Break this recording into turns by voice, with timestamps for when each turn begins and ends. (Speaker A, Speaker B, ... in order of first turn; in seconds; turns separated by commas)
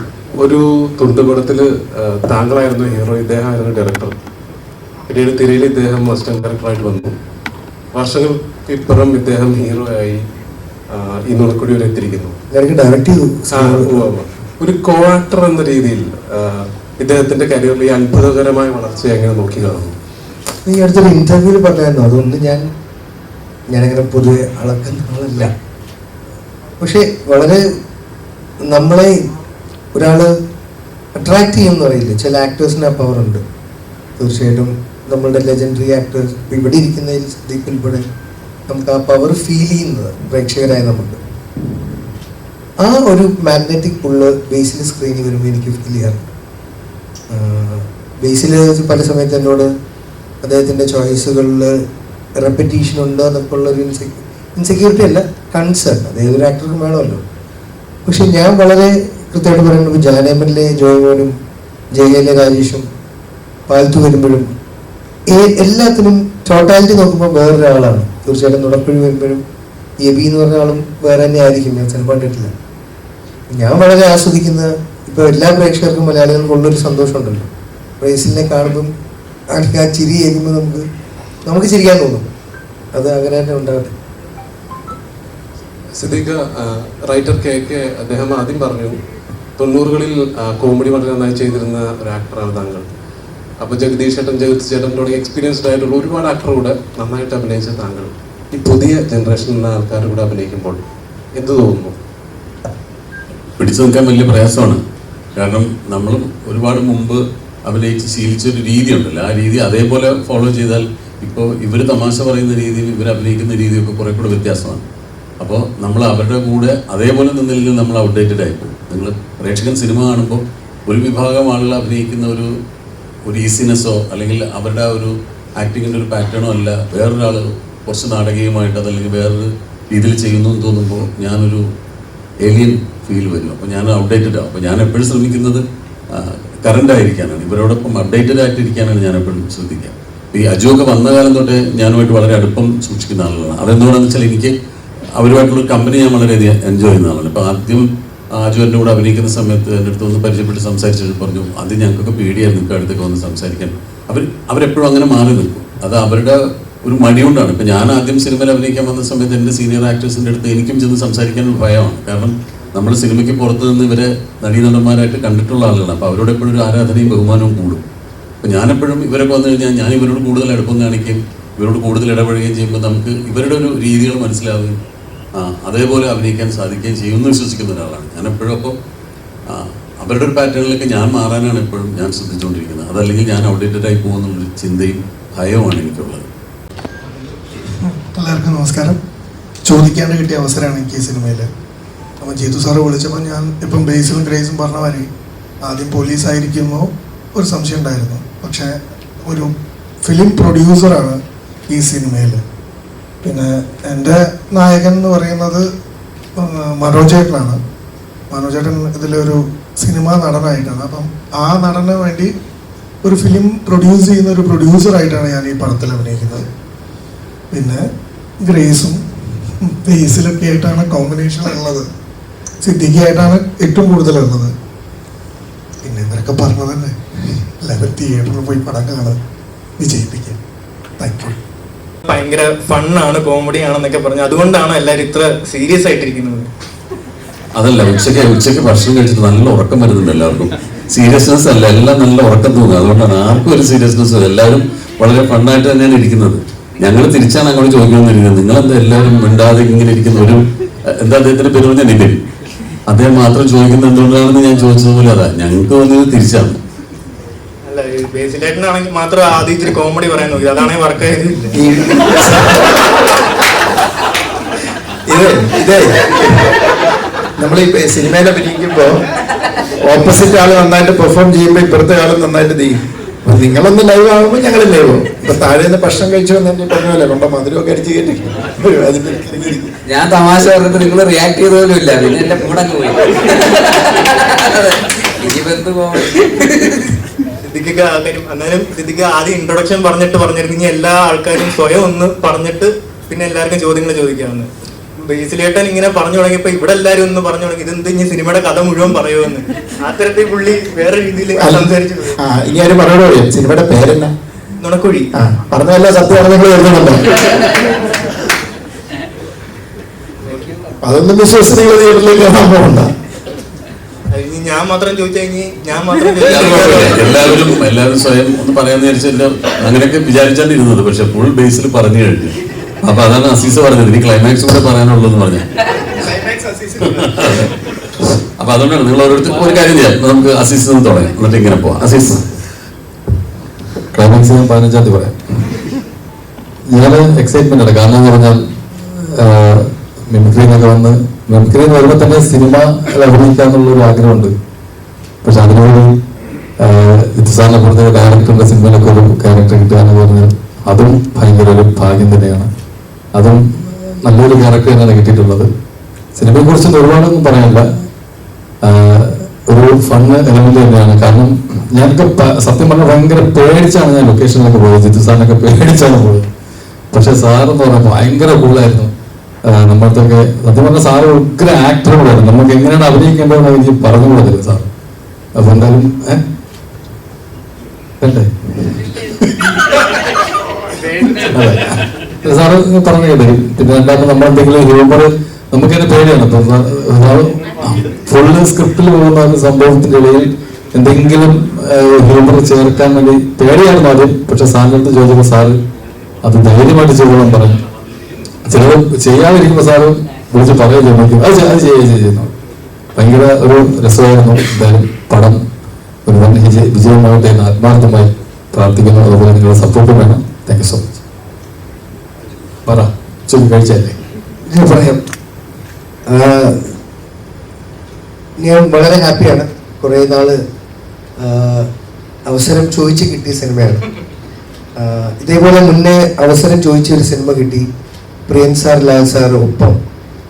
Speaker A: 0.4-4.1, Speaker A: 5.1-7.1, Speaker A: 7.9-10.2, Speaker A: 10.9-12.4, Speaker B: 12.5-13.9, Speaker A: 13.5-19.9, Speaker B: 20.6-22.6, Speaker B: 23.7-25.5, Speaker B: 26.8-27.6, Speaker B: 28.6-29.2, Speaker B: 29.9-30.3, Speaker B: 31.2-33.4, Speaker B: 34.2-38.0, Speaker B: 38.7-41.2, Speaker B: 42.8-46.3, Speaker B: 47.3-49.7, Speaker B: 50.4-51.8, Speaker B: 52.4-57.2, Speaker B: 58.1-61.3, Speaker B: 61.9-62.9, Speaker B: 63.7-64.5, Speaker B: 65.3-69.4, Speaker B: 70.0-72.5, Speaker B: 73.5-77.5, Speaker B: 78.0-78.9, Speaker B: 79.5-80.9, Speaker B: 81.5-82.3, Speaker B: 82.9-83.9, Speaker A: 86.0-89.0, Speaker A: 89.6-92.8, Speaker A: 93.6-100.8, Speaker A: 101.4-102.0, Speaker C: 103.6-104.8, Speaker C: 105.4-114.8, Speaker C: 115.4-122.5, Speaker C: 123.3-131.6, Speaker C: 132.4-144.5, Speaker C: 145.2-147.8, Speaker C: 148.4-167.8, Speaker C: 168.4-174.8, Speaker C: 175.4-178.7, Speaker C: 179.5-186.2, Speaker D: 187.8-189.0, Speaker D: 189.7-191.5, Speaker D: 192.2-195.1, Speaker D: 195.6-199.5, Speaker D: 200.0-202.4, Speaker D: 203.2-205.7, Speaker D: 206.3-207.6, Speaker D: 208.3-212.3, Speaker D: 213.0-216.4, Speaker D: 217.5-217.8, Speaker D: 218.4-221.9, Speaker D: 222.6-224.5, Speaker D: 225.8-229.2, Speaker D: 229.8-230.4, Speaker D: 231.0-231.3, Speaker E: 232.1-236.5, Speaker C: 237.6-250.4, Speaker C: 251.0-252.2, Speaker C: 252.9-256.6, Speaker E: 257.7-261.5, Speaker F: 261.6-262.8, Speaker F: 265.1-266.5, Speaker F: 267.4-269.0, Speaker F: 269.8-279.7, Speaker G: 279.8-286.9, Speaker E: 287.4-302.1, Speaker F: 301.3-304.1, Speaker E: 304.6-305.1, Speaker F: 305.1-307.6, Speaker F: 310.8-312.9, Speaker E: 314.1-317.0, Speaker C: 316.2-325.5, Speaker C: 326.0-327.5, Speaker C: 328.4-332.2, Speaker H: 333.9-335.2, Speaker H: 336.7-344.3, Speaker H: 345.2-345.9, Speaker H: 346.6-352.5, Speaker H: 353.1-355.5, Speaker H: 356.1-357.9, Speaker H: 358.6-366.3, Speaker H: 366.9-368.9, Speaker H: 369.5-374.7, Speaker H: 375.4-376.2, Speaker H: 378.0-379.5, Speaker H: 381.1-395.6, Speaker H: 396.2-397.6, Speaker H: 398.5-402.3, Speaker H: 402.9-405.4, Speaker H: 406.1-410.9, Speaker H: 412.7-413.9, Speaker B: 414.5-415.0, Speaker B: 416.1-416.7, Speaker B: 418.4-420.4, Speaker B: 421.2-421.7, Speaker B: 422.3-423.8, Speaker B: 424.8-427.6, Speaker B: 428.3-429.8